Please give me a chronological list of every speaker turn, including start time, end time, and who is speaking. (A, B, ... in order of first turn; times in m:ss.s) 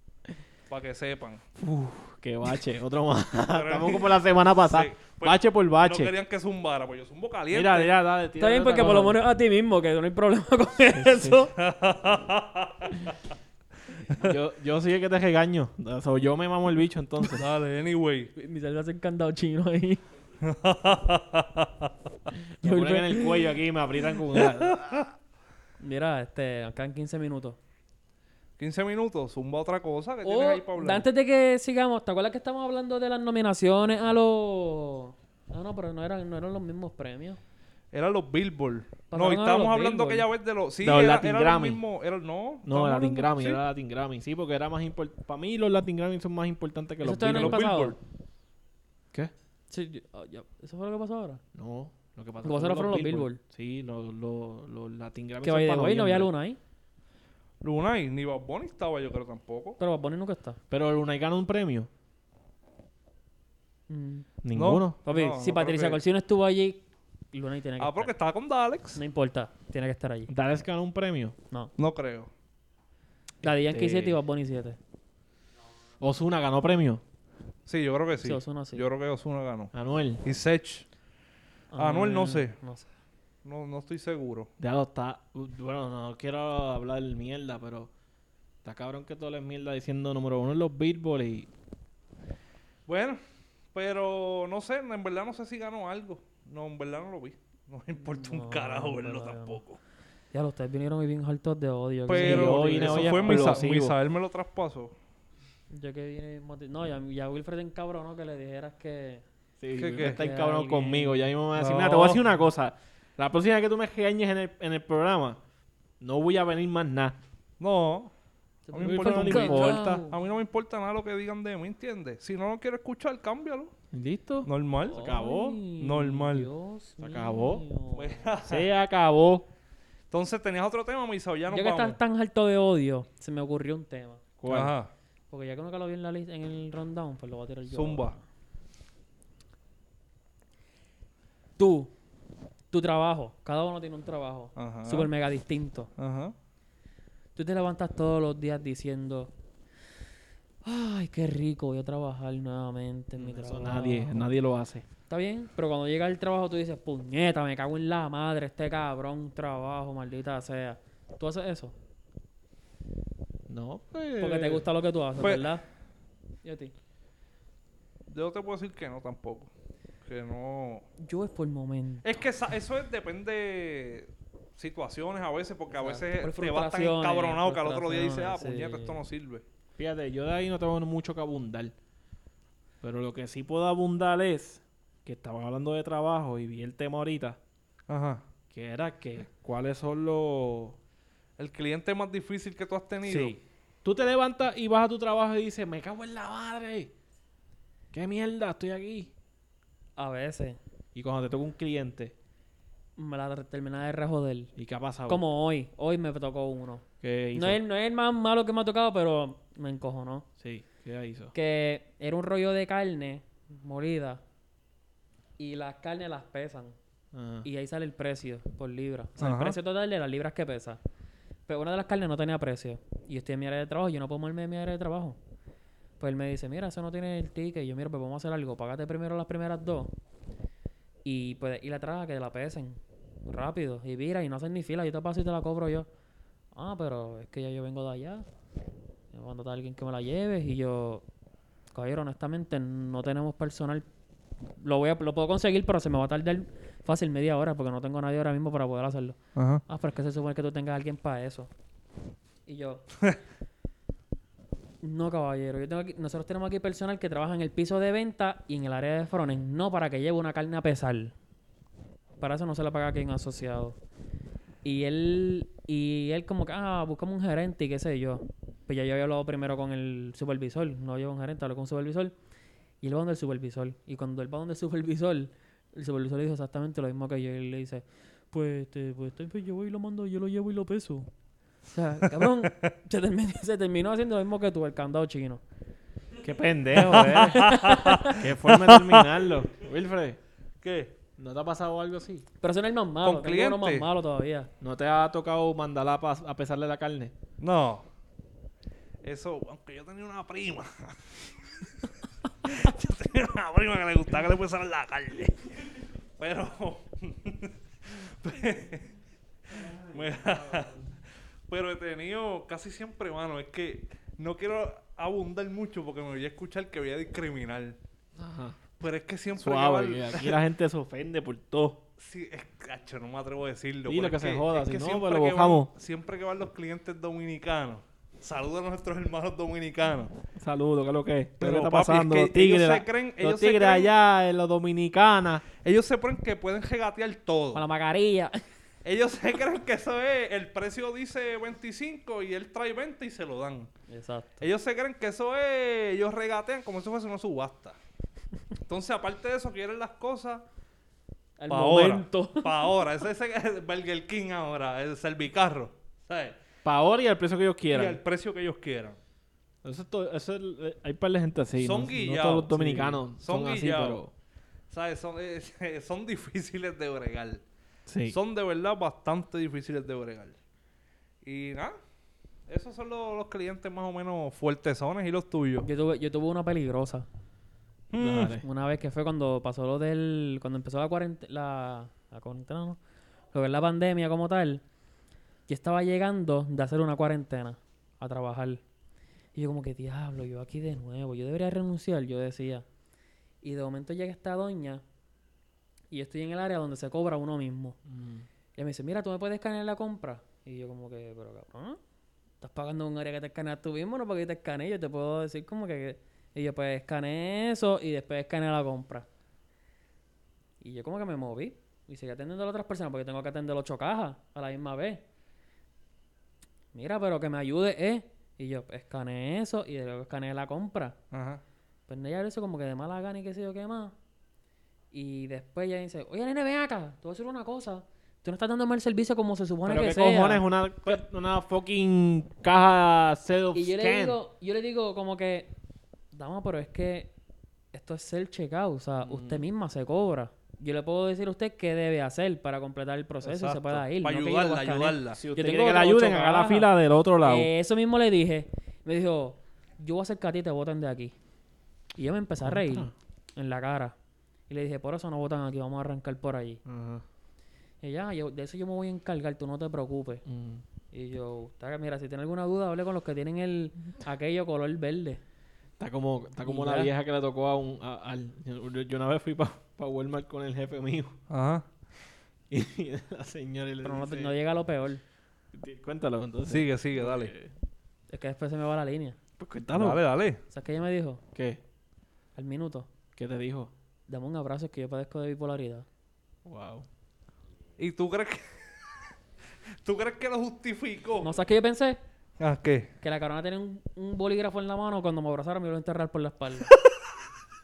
0:00.7-0:01.4 A
0:01.6-0:06.1 B
0:03.5-0:07.9 A
0:07.5-0:09.2 B
0:08.4-0:11.5 C
0:10.9-0:11.4 B
0:11.6-0:13.2 A
0:14.1-0:14.4 A
0:14.1-0:17.4 B
0:17.3-0:18.3 A
0:18.4-0:20.0 C
0:20.4-0:21.9 A
0:22.6-0:23.6 C
0:22.6-0:24.8 B
0:24.4-0:25.1 A
0:25.8-0:27.6 C
0:28.6-0:31.1 A
0:30.2-0:37.4 C
0:37.9-0:43.6 A
0:39.1-0:40.3 C
0:40.8-0:41.8 B
0:42.6-0:47.6 B
0:47.0-0:48.0 C
0:47.3-0:48.0 A
0:49.7-0:51.4 C
0:51.5-0:56.3 B
0:52.4-0:53.4 C
0:55.4-0:56.6 C
0:57.6-0:59.8 A
0:59.8-1:00.6 C
1:00.7-1:01.9 B
1:03.9-1:04.3 C
1:04.4-1:05.0 B
1:04.5-1:06.0 A
1:05.0-1:08.1 C
1:07.8-1:09.0 A
1:08.9-1:10.3 C
1:10.3-1:11.4 B
1:11.8-1:12.3 A
1:13.4-1:14.8 C
1:13.4-1:14.2 B
1:16.0-1:17.0 B
1:17.6-1:19.7 A
1:18.2-1:18.9 C
1:19.7-1:20.2 B
1:20.2-1:20.8 A
1:21.7-1:22.8 C
1:21.7-1:22.5 A
1:23.4-1:24.5 A
1:24.6-1:27.9 B
1:28.6-1:31.5 B
1:32.8-1:33.2 A
1:33.7-1:39.8 A
1:38.0-1:39.6 C
1:40.3-1:43.7 C
1:42.1-1:44.9 A
1:42.1-1:43.9 B
1:45.7-1:49.2 C
1:49.6-1:55.4 B
1:49.8-1:50.2 A
1:49.8-1:51.3 C
1:51.5-1:52.3 A
1:56.0-1:57.2 B
1:57.6-1:58.1 A
1:58.7-2:00.2 C
1:58.7-2:03.7 A
1:58.8-2:00.0 B
2:03.9-2:05.6 B
2:04.4-2:05.0 A
2:04.9-2:08.3 C
2:05.8-2:06.5 A
2:07.0-2:07.6 B
2:07.9-2:08.7 A
2:08.4-2:09.5 B
2:10.1-2:12.0 A
2:11.5-2:14.2 C
2:14.4-2:14.7 B
2:14.5-2:14.9 A
2:15.3-2:18.2 C
2:17.7-2:18.1 A
2:21.6-2:21.9 C
2:22.7-2:25.9 C
2:24.6-2:25.1 A
2:26.0-2:26.3 A
2:27.4-2:29.3 C
2:30.6-2:34.3 C
2:33.2-2:34.8 B
2:35.1-2:41.7 C
2:43.5-2:44.6 B
2:44.2-2:45.6 C
2:45.2-2:45.5 A
2:46.4-2:46.7 C
2:48.1-2:49.5 A
2:50.0-2:50.8 A
2:51.0-2:52.1 C
2:52.0-2:59.4 A
2:55.7-2:59.0 C
2:59.8-3:01.7 B
3:02.8-3:07.4 B
3:07.9-3:08.2 A
3:08.5-3:10.8 B
3:11.4-3:13.4 A
3:13.0-3:16.9 B
3:17.9-3:19.1 B
3:20.0-3:20.6 C
3:20.9-3:22.1 B
3:23.0-3:24.5 C
3:24.6-3:25.2 B
3:25.1-3:30.3 C
3:27.0-3:27.6 B
3:30.4-3:31.3 B
3:31.3-3:34.2 C
3:35.4-3:36.7 C
3:37.1-3:37.5 B
3:37.4-3:40.8 C
3:39.2-3:39.6 A
3:41.5-3:45.2 C
3:46.0-3:49.9 C
3:51.0-3:55.9 C
3:56.5-3:58.2 C
3:59.1-4:01.0 C
4:01.7-4:03.8 C
4:04.6-4:11.5 C
4:09.4-4:09.6 A
4:12.4-4:12.8 C
4:14.8-4:21.1 C
4:22.2-4:23.8 C
4:24.6-4:32.1 C
4:32.8-4:41.1 C
4:41.7-4:45.4 C
4:42.2-4:42.7 A
4:46.2-4:50.2 B
4:46.8-4:49.2 A
4:47.1-4:48.2 C
4:50.6-4:50.9 A
4:51.2-4:52.2 B
4:52.4-4:54.5 C
4:53.0-4:53.9 A
4:54.6-4:57.1 B
4:57.4-4:57.8 A
4:59.0-5:08.9 A
5:09.6-5:10.9 A
5:11.5-5:17.8 A
5:18.2-5:18.6 B
5:18.8-5:20.4 A
5:19.4-5:21.8 B
5:22.0-5:30.1 A
5:23.8-5:25.7 B
5:30.4-5:35.4 B
5:31.4-5:33.9 A
5:35.6-5:37.6 A
5:37.5-5:38.4 C
5:38.8-5:43.7 A
5:43.9-5:44.4 C
5:44.4-5:47.8 A
5:48.7-5:50.4 A
5:51.4-5:52.7 C
5:51.5-5:56.4 A
5:56.6-5:58.0 B
5:57.7-5:59.0 A
5:59.6-6:04.1 B
6:01.6-6:04.0 A
6:04.7-6:07.4 A
6:07.9-6:08.2 B
6:08.1-6:10.4 A
6:11.2-6:11.8 A
6:12.5-6:15.7 A
6:15.6-6:17.0 C
6:17.9-6:18.3 A
6:18.0-6:18.4 B
6:18.4-6:22.8 C
6:23.3-6:24.6 C
6:25.5-6:28.6 C
6:29.3-6:32.6 C
6:33.4-6:34.8 C
6:35.9-6:37.8 C
6:37.8-6:38.3 B
6:38.6-6:41.8 C
6:42.4-6:49.1 C
6:50.6-6:55.0 C
6:56.7-7:01.0 C
7:01.1-7:01.4 A
7:01.9-7:03.9 C
7:04.9-7:11.0 C
7:09.6-7:14.2 B
7:13.5-7:15.5 C
7:16.1-7:17.1 C
7:17.7-7:26.7 C
7:19.0-7:19.4 B
7:23.2-7:25.2 A
7:25.1-7:27.5 B
7:27.2-7:31.1 C
7:32.0-7:33.9 C
7:32.4-7:32.9 B
7:34.5-7:36.6 C
7:36.6-7:37.0 B
7:37.8-7:40.2 C
7:40.2-7:40.6 B
7:40.9-7:45.2 C
7:45.8-7:51.2 B
7:46.4-7:46.9 C
7:51.3-7:51.6 A
7:52.5-7:54.3 B
7:53.8-7:55.0 C
7:55.5-7:57.5 B
7:56.5-7:57.3 A
7:58.1-7:59.2 C
7:59.4-8:00.0 B
7:59.7-8:00.4 A
8:00.5-8:01.2 C
8:01.3-8:01.6 B
8:02.4-8:02.9 C
8:03.2-8:03.7 B
8:04.1-8:05.8 C
8:06.4-8:06.8 B
8:07.8-8:08.6 A
8:09.8-8:11.4 A
8:11.2-8:12.0 C
8:12.4-8:12.9 A
8:13.0-8:16.7 C